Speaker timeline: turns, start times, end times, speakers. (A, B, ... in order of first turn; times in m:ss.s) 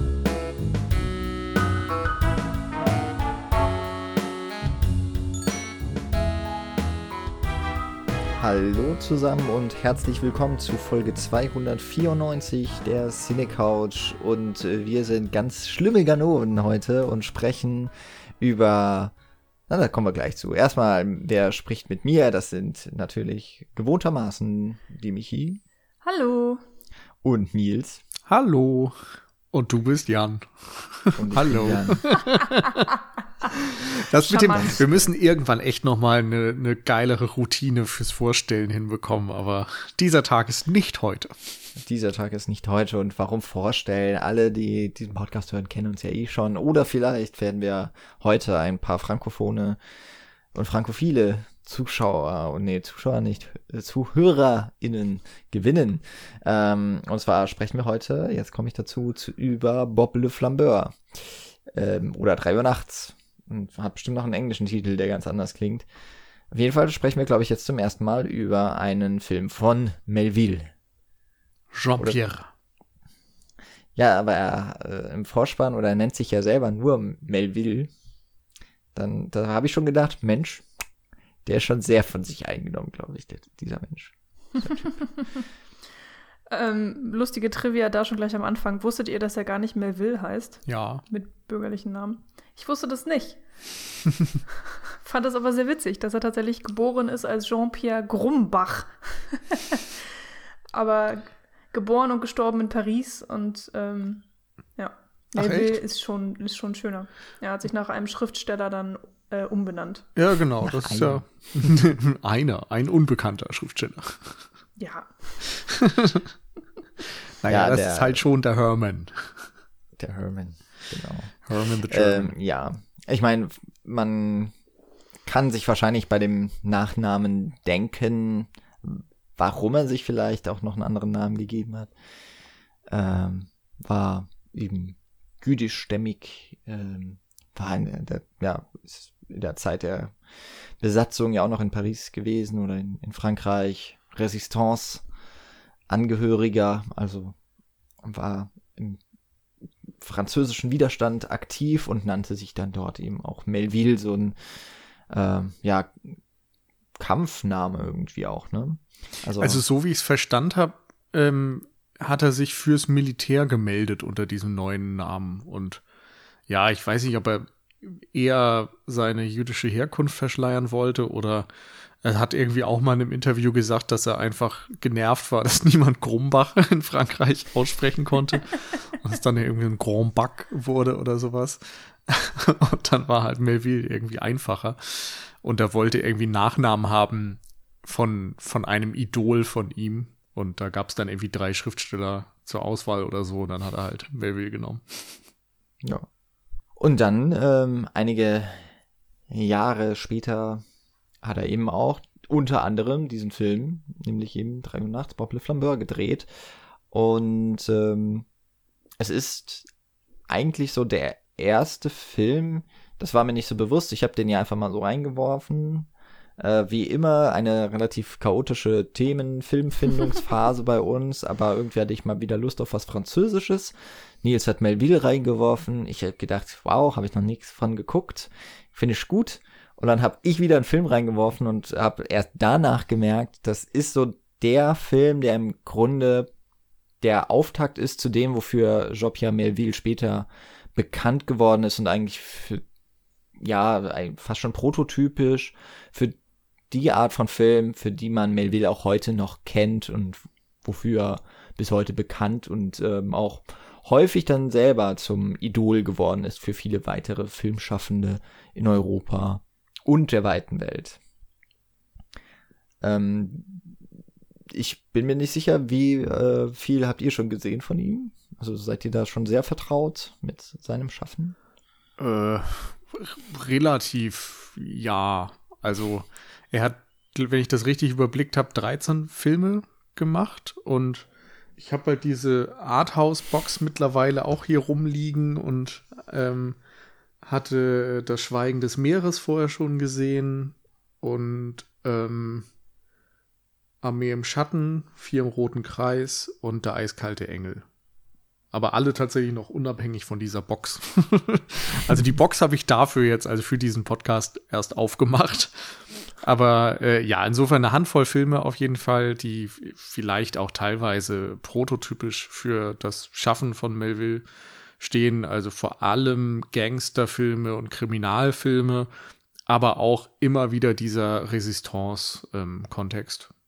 0:08.4-0:19.1 A
0:19.7-0:25.6 A
0:26.0-0:26.6 B
0:27.2-0:28.0 A
0:28.3-0:32.9 C
0:31.2-0:32.0 A
0:33.5-0:41.6 C
0:34.3-0:34.8 B
0:34.6-0:35.1 A
0:41.8-0:49.8 A
0:50.5-1:05.8 A
1:06.5-1:10.7 A
1:11.7-1:12.5 C
1:14.0-1:17.9 A
1:18.9-1:20.6 A
1:21.4-1:24.9 A
1:26.5-1:33.4 B
1:30.7-1:31.0 C
1:35.0-1:39.8 B
1:40.7-1:44.2 B
1:44.8-1:50.1 B
1:45.3-1:45.8 C
1:50.2-1:54.4 C
1:50.6-1:51.2 A
1:54.8-1:55.1 B
1:55.4-1:56.3 C
1:57.4-1:59.5 C
1:57.5-1:58.2 A
2:00.0-2:01.3 A
2:01.5-2:02.3 C
2:01.9-2:04.5 A
2:05.2-2:11.9 A
2:12.9-2:20.1 A
2:20.8-2:25.0 A
2:25.9-2:27.4 A
2:28.0-2:29.0 A
2:30.0-2:34.4 A
2:35.1-2:36.0 A
2:37.0-2:39.6 A
2:39.4-2:45.8 C
2:46.5-2:51.5 C
2:52.0-3:15.2 C
3:16.8-3:18.7 A
3:19.3-3:20.6 A
3:21.2-3:26.3 A
3:26.9-3:28.2 A
3:29.0-3:29.7 A
3:30.3-3:56.3 A
3:57.0-4:02.6 A
4:03.4-4:06.2 A
4:06.7-4:21.0 A
4:22.8-4:23.6 A
4:24.5-4:31.4 A
4:32.0-4:41.1 C
4:41.6-4:46.6 C
4:47.2-4:52.5 C
4:53.8-4:57.6 C
4:58.5-5:14.2 C
5:14.8-5:18.9 C
5:19.5-5:23.3 C